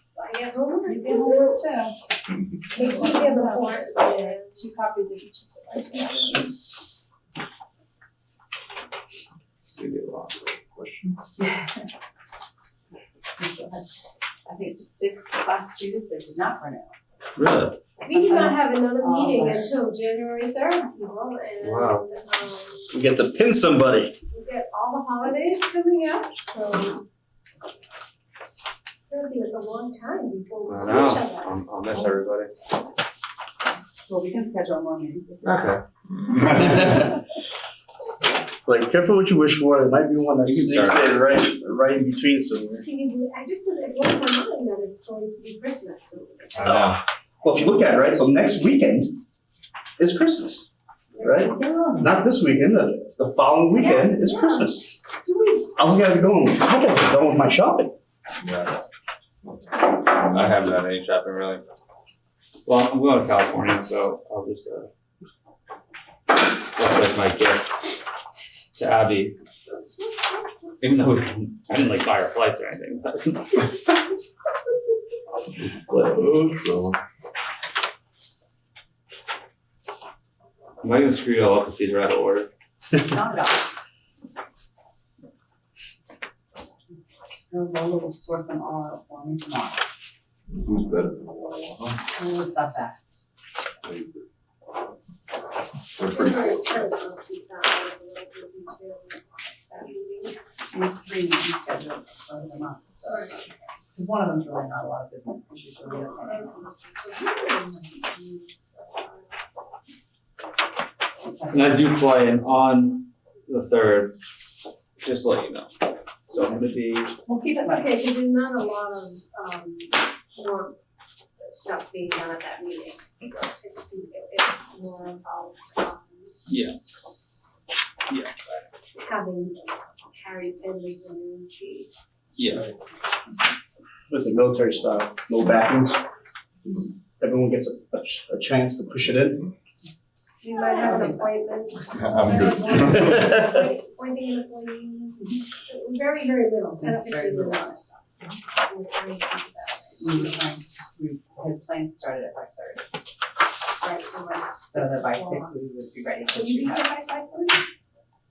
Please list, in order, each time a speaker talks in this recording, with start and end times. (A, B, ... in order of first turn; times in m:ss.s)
0:00.2-0:01.6 A
0:00.8-0:02.0 B
0:02.7-0:06.5 B
0:02.7-0:04.6 A
0:09.6-0:10.3 C
0:10.4-0:11.2 D
0:13.4-0:17.0 B
0:17.4-0:17.8 C
0:18.0-0:22.9 A
0:18.1-0:19.9 B
0:21.6-0:22.1 C
0:22.9-0:24.2 E
0:24.3-0:27.0 A
0:28.9-0:31.6 A
0:30.7-0:32.5 C
0:34.1-0:35.8 B
0:35.4-0:35.8 C
0:36.1-0:37.0 D
0:38.7-0:42.9 E
0:40.4-0:41.1 C
0:42.8-0:47.0 A
0:46.6-0:47.0 D
0:47.4-0:49.2 E
0:50.0-0:50.7 E
0:51.1-0:51.8 A
0:51.2-0:55.0 E
0:51.6-0:52.1 B
0:53.7-0:55.8 A
0:55.8-0:58.0 E
0:58.4-0:58.7 D
1:00.2-1:00.8 D
1:00.3-1:01.6 C
1:02.7-1:04.9 C
1:06.7-1:07.8 C
1:08.8-1:09.3 C
1:10.8-1:13.9 C
1:15.5-1:16.5 C
1:16.1-1:17.0 D
1:20.8-1:22.5 C
1:22.9-1:23.7 B
1:27.3-1:29.9 B
1:30.5-1:32.0 D
1:32.2-1:33.2 B
1:33.8-1:34.2 D
1:36.0-1:36.6 D
1:36.0-1:40.4 A
1:40.7-1:43.0 B
1:43.0-1:43.4 A
1:43.9-1:46.7 B
1:45.9-1:49.2 A
1:51.2-1:52.0 B
1:51.5-1:54.2 C
1:55.0-1:55.7 C
1:56.3-1:57.2 C
1:57.3-1:58.1 B
1:57.6-2:00.8 A
2:01.4-2:06.3 A
2:06.5-2:06.8 C
2:08.1-2:08.6 C
2:09.0-2:11.9 A
2:12.4-2:12.7 C
2:14.1-2:16.0 E
2:17.2-2:19.4 E
2:20.4-2:30.5 A
2:20.4-2:21.5 B
2:21.9-2:23.1 D
2:23.1-2:23.4 E
2:26.7-2:28.0 B
2:30.0-2:33.0 B
2:33.8-2:37.0 B
2:33.8-2:35.6 A
2:36.3-2:37.7 A